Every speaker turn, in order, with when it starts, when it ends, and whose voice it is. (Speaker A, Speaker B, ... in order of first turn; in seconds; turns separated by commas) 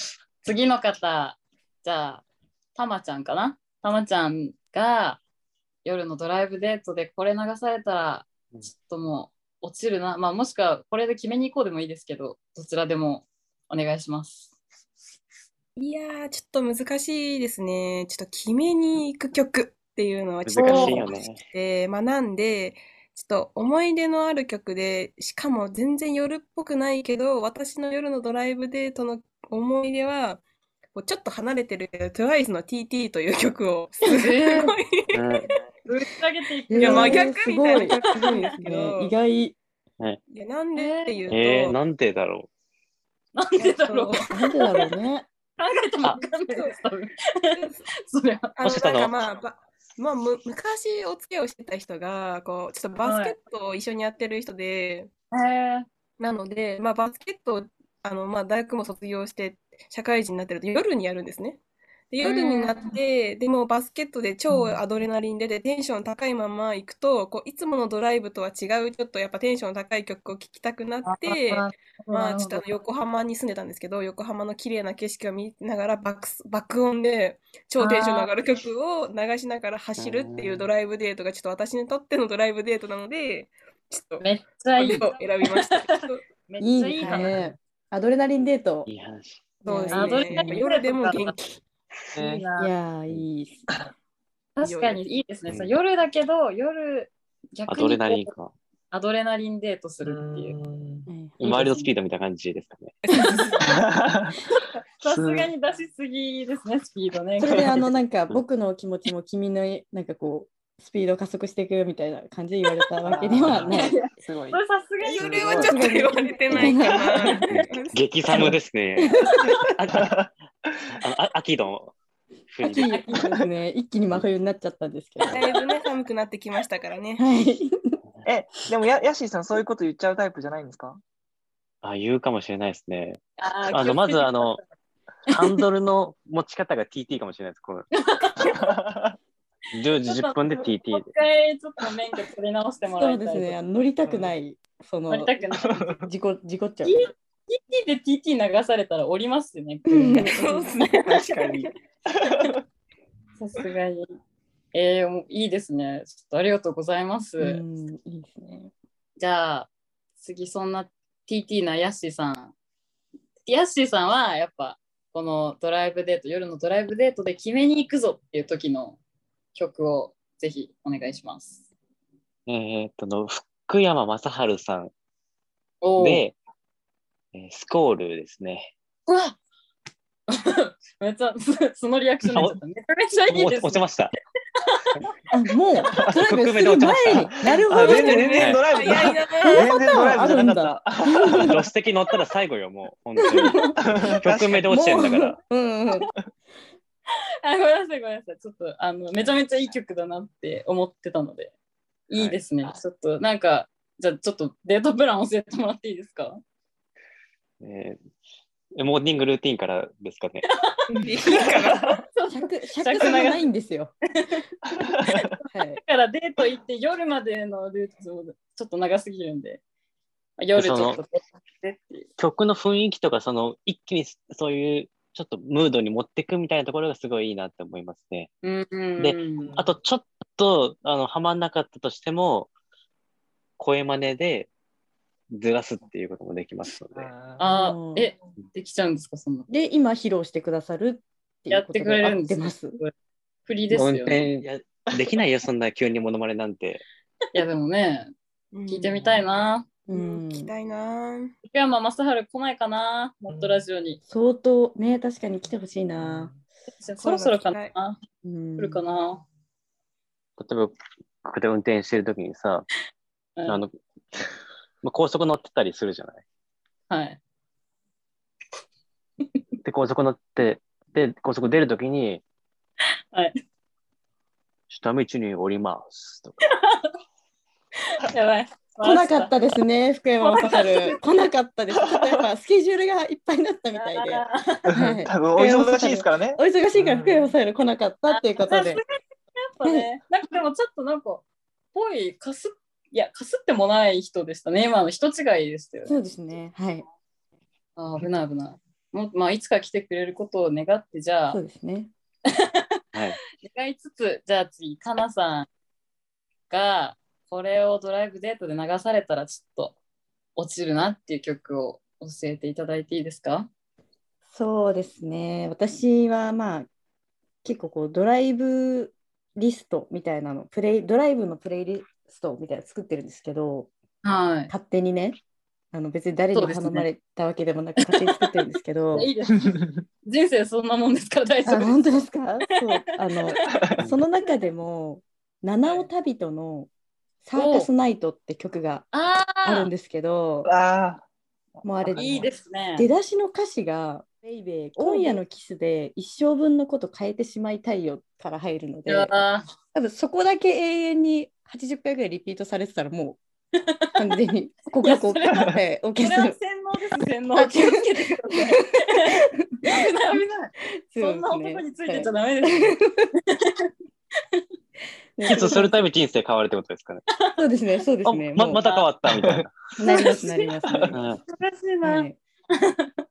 Speaker A: 0.4-2.2, Speaker A: 2.7-5.2, Speaker A: 5.8-14.5, Speaker B: 15.8-30.4, Speaker C: 20.4-21.4, Speaker A: 20.6-21.0, Speaker B: 30.9-35.5, Speaker A: 34.0-34.7, Speaker C: 35.1-35.5, Speaker A: 35.9-38.5, Speaker D: 36.7-39.6, Speaker B: 36.8-39.1, Speaker B: 40.3-41.8, Speaker A: 40.7-41.3, Speaker C: 41.3-42.5, Speaker A: 43.3-44.8, Speaker B: 43.6-44.3, Speaker D: 44.3-45.3, Speaker A: 45.6-48.5, Speaker B: 47.5-47.8, Speaker B: 48.5-55.1, Speaker C: 48.6-49.2, Speaker A: 53.0-53.4, Speaker A: 55.3-55.9, Speaker B: 56.2-61.6, Speaker B: 62.1-86.2, Speaker A: 62.2-63.0, Speaker A: 64.5-64.8, Speaker A: 71.0-72.6, Speaker A: 77.8-78.3, Speaker C: 80.0-80.7, Speaker A: 84.2-85.9, Speaker A: 86.5-87.5, Speaker D: 86.6-88.9, Speaker C: 88.9-89.5, Speaker D: 89.6-90.6, Speaker B: 89.6-91.6, Speaker A: 89.9-91.3, Speaker E: 92.2-92.4, Speaker A: 92.2-92.7, Speaker D: 92.5-93.6, Speaker A: 94.5-98.3, Speaker B: 94.6-95.0, Speaker C: 95.5-95.7, Speaker C: 97.7-98.5, Speaker A: 98.9-100.5, Speaker E: 100.0-101.1, Speaker D: 101.1-101.4, Speaker A: 101.4-101.9, Speaker C: 101.4-103.0, Speaker B: 103.0-103.7, Speaker E: 103.6-104.4, Speaker A: 104.5-107.9, Speaker E: 105.1-105.5, Speaker D: 107.4-114.0, Speaker E: 113.0-114.6, Speaker A: 113.5-115.6, Speaker B: 115.0-118.0, Speaker E: 115.2-115.8, Speaker D: 115.6-117.3, Speaker E: 116.8-117.3, Speaker C: 117.5-120.3, Speaker D: 119.0-119.5, Speaker E: 119.4-120.3, Speaker C: 120.9-121.9, Speaker C: 122.5-122.9, Speaker D: 122.6-125.5, Speaker A: 122.9-123.3, Speaker B: 125.3-127.2, Speaker D: 127.2-128.0, Speaker E: 128.2-131.0, Speaker C: 131.8-134.6, Speaker A: 133.4-134.6, Speaker C: 135.3-137.9, Speaker A: 138.0-138.7, Speaker E: 138.4-139.2, Speaker C: 139.7-141.1, Speaker A: 140.0-143.6, Speaker D: 142.9-145.3, Speaker E: 144.0-144.3, Speaker A: 145.1-145.9, Speaker E: 145.6-146.1, Speaker D: 146.0-146.9, Speaker A: 146.8-151.0, Speaker D: 149.9-150.7, Speaker B: 150.2-151.7, Speaker E: 151.0-152.6, Speaker A: 153.4-154.1, Speaker A: 154.7-157.6, Speaker D: 157.4-158.7, Speaker A: 159.2-162.5, Speaker A: 163.4-169.0, Speaker A: 169.5-171.6, Speaker C: 172.5-174.9, Speaker A: 175.8-176.2, Speaker C: 176.0-176.3, Speaker C: 177.3-178.7, Speaker A: 179.1-179.4, Speaker A: 180.3-183.8, Speaker C: 182.3-182.6, Speaker C: 183.3-184.1, Speaker D: 185.3-188.3, Speaker C: 186.2-187.3, Speaker E: 187.6-191.6, Speaker B: 187.7-189.7, Speaker C: 188.3-188.6, Speaker D: 189.5-191.6, Speaker C: 191.3-195.4, Speaker D: 193.3-193.8, Speaker E: 193.8-194.7, Speaker D: 194.7-196.1, Speaker A: 197.4-201.5, Speaker A: 202.1-206.4, Speaker C: 207.6-208.0, Speaker C: 208.8-210.4, Speaker B: 210.9-212.0, Speaker E: 211.0-211.9, Speaker A: 212.1-213.4, Speaker D: 212.3-213.9, Speaker E: 214.7-215.3, Speaker A: 215.0-219.6, Speaker D: 215.5-215.8, Speaker A: 220.4-222.1, Speaker C: 220.5-221.0, Speaker C: 222.2-228.3, Speaker A: 228.4-229.5, Speaker C: 229.0-232.5, Speaker E: 229.4-229.7, Speaker C: 233.6-234.5, Speaker C: 235.3-237.1, Speaker E: 236.9-237.5, Speaker A: 237.4-239.5, Speaker D: 237.5-238.1, Speaker D: 239.5-242.8, Speaker A: 241.5-242.9, Speaker A: 243.4-244.2, Speaker C: 243.7-246.8, Speaker A: 247.3-248.1, Speaker B: 248.5-249.2, Speaker A: 248.7-249.7, Speaker D: 249.9-250.5, Speaker B: 249.9-251.3, Speaker A: 251.4-254.0, Speaker E: 253.3-253.6, Speaker D: 254.1-256.3, Speaker E: 256.0-256.4, Speaker A: 256.7-258.0, Speaker B: 257.0-257.7, Speaker D: 258.2-258.8, Speaker A: 258.6-259.2, Speaker C: 260.4-262.7, Speaker C: 263.5-263.7, Speaker C: 264.8-266.2, Speaker A: 266.9-267.2, Speaker C: 269.6-272.2, Speaker C: 274.7-276.5, Speaker A: 276.5-276.9, Speaker A: 277.9-279.3, Speaker D: 278.8-288.8, Speaker A: 280.2-281.0, Speaker A: 283.7-284.7, Speaker E: 284.7-287.3, Speaker A: 288.1-288.8, Speaker A: 289.4-296.0, Speaker D: 295.9-296.8, Speaker A: 297.8-301.4, Speaker D: 301.3-301.9, Speaker A: 302.4-302.6, Speaker A: 303.4-305.5, Speaker A: 306.5-309.8, Speaker A: 310.4-313.5, Speaker D: 314.3-316.7, Speaker D: 317.4-323.7, Speaker A: 324.0-324.5, Speaker D: 324.5-325.2, Speaker D: 325.7-329.1, Speaker A: 326.3-326.9, Speaker A: 327.8-328.1, Speaker A: 328.9-332.0, Speaker E: 329.4-329.8, Speaker D: 331.4-336.7, Speaker D: 337.2-338.9, Speaker A: 337.3-337.7, Speaker A: 338.9-339.7, Speaker D: 339.4-340.5, Speaker E: 340.4-341.1, Speaker E: 341.6-342.2, Speaker D: 341.6-349.1, Speaker A: 341.9-342.9, Speaker A: 344.8-345.2, Speaker A: 348.9-349.4, Speaker D: 349.7-353.2, Speaker A: 353.6-354.0, Speaker D: 353.9-356.4, Speaker A: 354.8-363.7, Speaker D: 357.3-358.8, Speaker D: 360.9-363.1, Speaker D: 365.2-365.8, Speaker C: 365.2-367.0, Speaker D: 367.4-368.6, Speaker C: 368.0-369.5, Speaker A: 368.6-368.9, Speaker E: 369.1-369.4, Speaker D: 369.8-371.0, Speaker A: 369.9-370.5, Speaker E: 370.7-370.9, Speaker C: 370.9-371.2, Speaker A: 371.2-373.0, Speaker D: 371.8-372.2